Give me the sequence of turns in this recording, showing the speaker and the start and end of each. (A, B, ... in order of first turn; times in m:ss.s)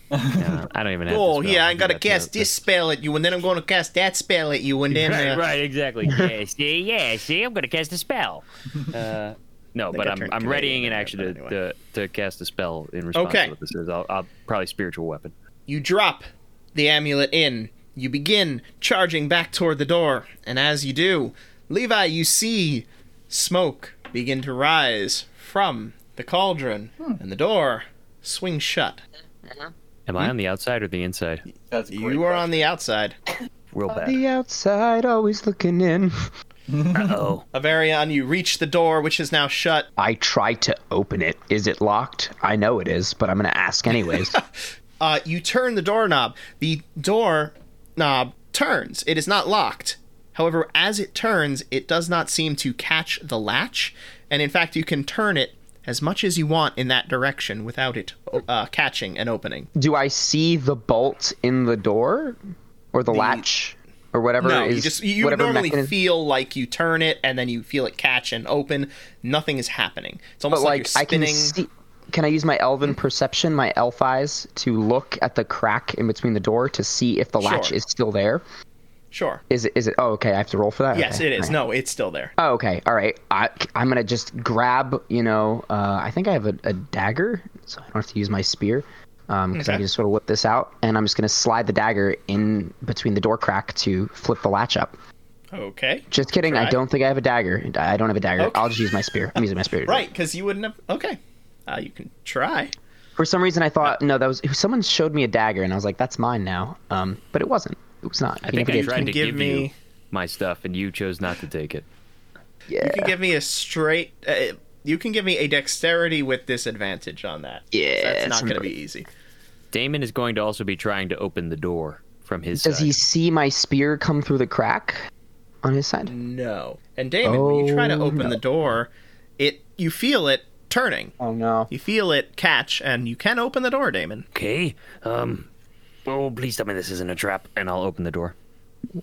0:00.1-0:00.6 A
0:00.4-0:02.6 B
0:01.1-0:05.5 C
0:04.9-0:15.3 B
0:09.9-0:11.6 C
0:13.1-0:13.5 C
0:15.7-0:29.0 C
0:29.5-0:29.7 D
0:30.1-0:31.4 B
0:31.7-0:32.6 A
0:31.9-0:33.2 C
0:33.7-0:34.2 E
0:33.9-0:36.3 D
0:36.7-0:37.3 A
0:36.9-0:37.4 E
0:37.5-0:39.9 C
0:40.0-0:44.4 D
0:45.0-0:59.7 C
0:59.8-1:02.4 D
1:02.9-1:06.0 D
1:03.1-1:03.5 C
1:04.4-1:11.6 C
1:10.5-1:18.4 D
1:17.4-1:17.8 C
1:19.1-1:19.4 C
1:19.5-1:21.6 D
1:20.9-1:22.3 C
1:22.4-1:35.0 D
1:29.5-1:29.8 C
1:35.5-1:36.8 C
1:36.1-1:40.1 D
1:38.4-1:38.8 C
1:39.8-1:42.8 C
1:43.2-1:49.1 D
1:48.5-1:49.7 C
1:48.5-1:51.9 B
1:52.7-1:53.2 D
1:52.8-1:59.1 C
1:57.7-1:58.7 D
1:59.7-2:02.9 B
2:02.6-2:05.0 D
2:05.6-2:06.1 D
2:06.1-2:11.1 C
2:07.2-2:08.4 D
2:11.2-2:11.7 D
2:11.7-2:14.3 C
2:14.3-2:15.5 E
2:16.1-2:18.3 E